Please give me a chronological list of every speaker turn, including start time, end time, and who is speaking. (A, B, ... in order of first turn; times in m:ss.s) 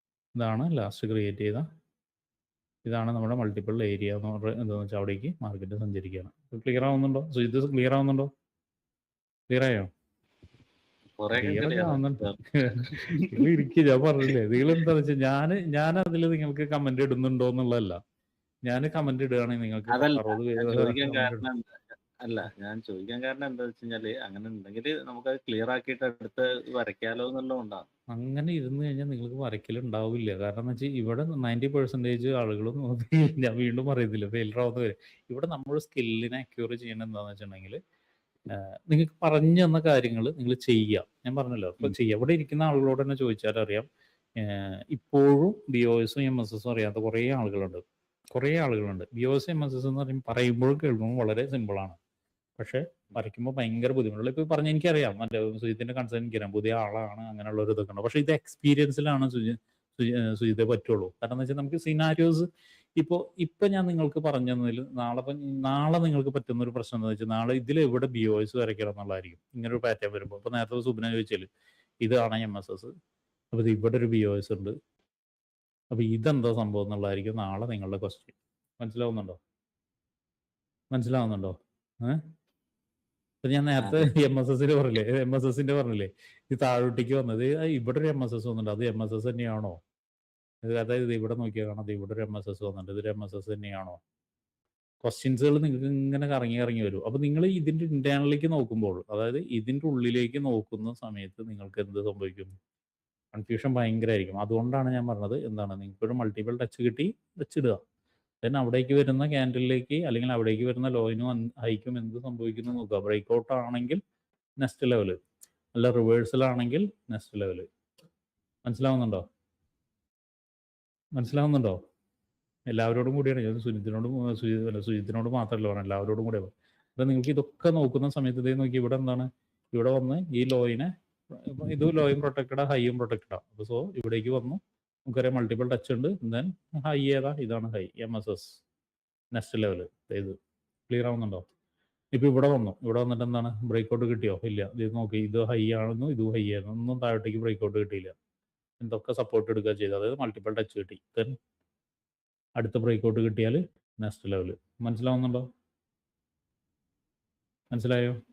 0:00.4-0:01.7 A
0:02.8-0:08.3 A
0:09.5-0:09.9 A
0:11.1-0:12.4 B
0:11.3-0:18.0 A
0:12.9-0:13.5 B
0:14.2-0:14.8 B
0:18.6-0:21.4 A
0:19.9-0:27.8 B
0:28.1-0:37.8 A
0:38.5-0:43.9 A
0:44.4-0:47.8 A
0:48.4-0:52.0 A
0:52.6-1:02.4 A
1:03.0-1:11.5 A
1:12.0-1:12.9 A
1:13.5-1:14.8 A
1:15.9-1:19.4 A
1:20.9-1:22.2 A
1:23.4-1:29.8 A
1:23.8-1:24.1 B
1:30.6-1:34.0 A
1:35.0-1:42.5 A
1:43.3-1:47.8 A
1:48.4-1:54.0 A
1:54.6-1:55.2 A
1:55.7-1:57.7 A
1:58.6-1:59.2 A
2:01.1-2:01.8 A
2:02.7-2:18.6 A
2:19.3-2:20.4 A
2:20.9-2:21.5 A
2:22.1-2:28.1 A
2:28.8-2:31.4 A
2:32.6-2:35.5 A
2:37.7-2:38.2 A